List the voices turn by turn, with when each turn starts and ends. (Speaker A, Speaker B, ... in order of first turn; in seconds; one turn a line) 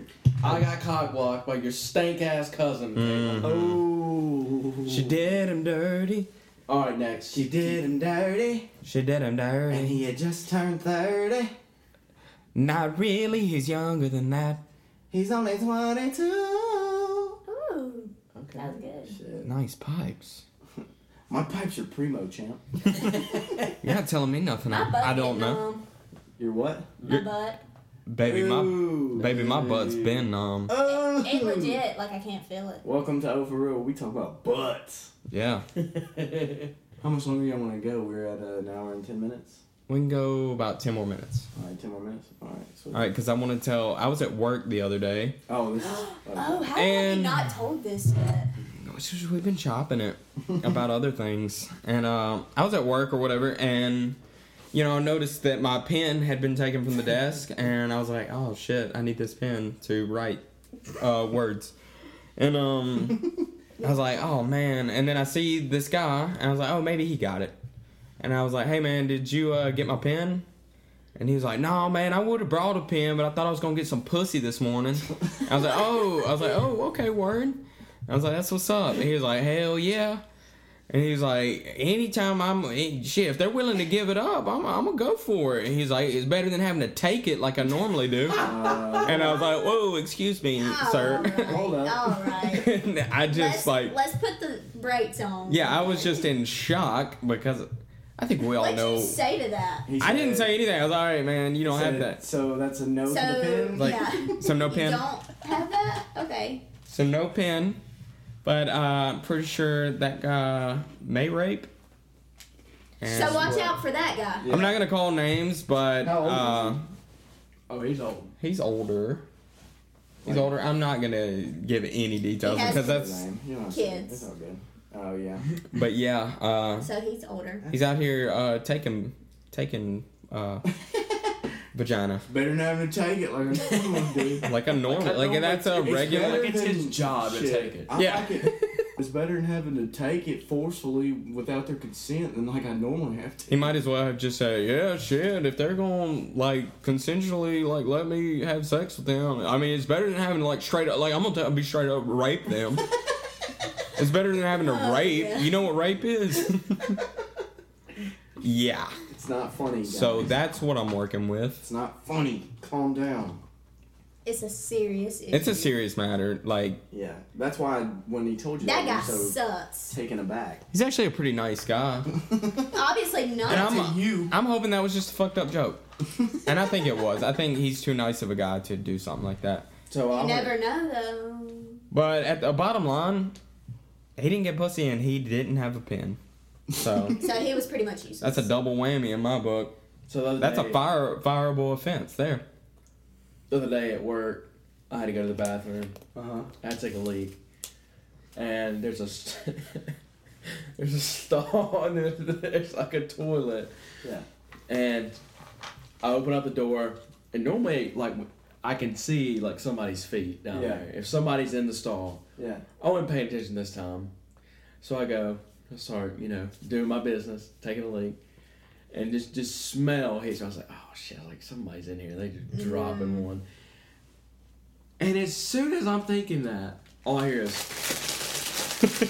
Speaker A: 0.4-3.5
Speaker B: 3.0-3.8
Speaker C: 3.4-5.2
Speaker B: 4.9-6.3
Speaker A: 6.7-7.8
Speaker C: 7.3-8.7
Speaker B: 8.8-10.0
Speaker C: 9.7-11.5
Speaker B: 12.6-14.6
Speaker C: 15.1-17.4
Speaker D: 17.5-19.2
Speaker A: 18.3-18.8
Speaker C: 19.1-19.5
Speaker B: 19.4-20.4
Speaker C: 20.8-23.7
Speaker B: 23.8-25.6
Speaker D: 24.7-25.9
Speaker C: 26.4-27.0
Speaker D: 27.0-27.6
Speaker B: 28.1-30.7
Speaker C: 28.2-31.8
Speaker A: 29.2-29.5
Speaker D: 30.8-32.8
Speaker C: 32.8-35.1
Speaker B: 35.3-35.6
Speaker A: 35.8-36.7
Speaker C: 37.0-39.6
Speaker B: 39.9-41.5
Speaker C: 41.5-43.1
Speaker B: 42.9-45.4
Speaker C: 45.5-46.7
Speaker D: 45.8-48.5
Speaker B: 46.8-47.5
Speaker B: 48.7-54.2
Speaker B: 54.7-60.4
Speaker B: 61.0-61.8
Speaker B: 62.4-63.3
Speaker B: 63.8-67.5
Speaker B: 68.2-70.5
Speaker B: 71.2-80.2
Speaker B: 80.9-88.5
Speaker C: 88.3-89.4
Speaker A: 88.4-89.0
Speaker B: 89.0-91.5
Speaker D: 89.3-89.6
Speaker D: 90.6-92.7
Speaker C: 91.4-92.2
Speaker B: 92.5-94.0
Speaker D: 93.3-96.1
Speaker B: 95.5-97.7
Speaker B: 98.2-99.2
Speaker D: 98.6-99.9
Speaker C: 99.9-100.5
Speaker B: 100.0-102.2
Speaker C: 101.7-104.4
Speaker D: 103.1-106.6
Speaker B: 103.8-105.0
Speaker B: 106.9-107.8
Speaker B: 108.4-111.7
Speaker B: 113.0-113.7
Speaker D: 113.0-114.5
Speaker C: 113.2-113.8
Speaker C: 114.4-114.8
Speaker B: 114.4-116.9
Speaker C: 116.0-116.8
Speaker A: 116.2-116.7
Speaker A: 117.7-118.3
Speaker B: 118.4-119.2
Speaker C: 120.2-120.5
Speaker B: 120.2-123.2
Speaker D: 122.4-123.0
Speaker C: 122.6-125.5
Speaker D: 123.7-124.3
Speaker B: 125.7-126.9
Speaker D: 126.8-127.7
Speaker B: 127.7-130.7
Speaker C: 130.9-131.1
Speaker B: 131.7-132.3
Speaker C: 132.3-134.6
Speaker B: 134.4-136.5
Speaker A: 134.9-137.9
Speaker C: 135.8-143.8
Speaker B: 137.9-138.9
Speaker B: 143.5-152.9
Speaker B: 153.9-157.0
Speaker D: 154.6-155.6
Speaker B: 158.4-159.0
Speaker C: 159.1-160.3
Speaker B: 159.8-161.7
Speaker C: 161.6-163.4
Speaker D: 164.2-165.7
Speaker B: 165.3-166.8
Speaker C: 166.9-169.4
Speaker D: 168.6-169.9
Speaker C: 169.9-170.6
Speaker B: 170.7-172.1
Speaker C: 172.1-172.7
Speaker D: 172.7-173.8
Speaker C: 173.4-174.3
Speaker B: 173.5-175.8
Speaker B: 176.4-179.7
Speaker A: 179.9-180.6
Speaker D: 180.1-181.8
Speaker B: 181.9-183.3
Speaker B: 184.2-186.2
Speaker B: 186.7-187.2
Speaker D: 187.2-188.5
Speaker B: 188.2-189.7
Speaker A: 190.1-190.8
Speaker B: 190.4-192.4
Speaker A: 193.5-195.9
Speaker C: 196.2-196.5
Speaker A: 196.6-197.4
Speaker A: 198.3-199.9
Speaker A: 200.4-203.7
Speaker A: 204.7-205.2
Speaker A: 206.0-212.2
Speaker C: 210.5-210.9
Speaker C: 212.4-212.7
Speaker A: 212.8-214.1
Speaker A: 214.8-218.2
Speaker A: 218.9-223.4
Speaker D: 222.5-223.3
Speaker A: 225.0-228.0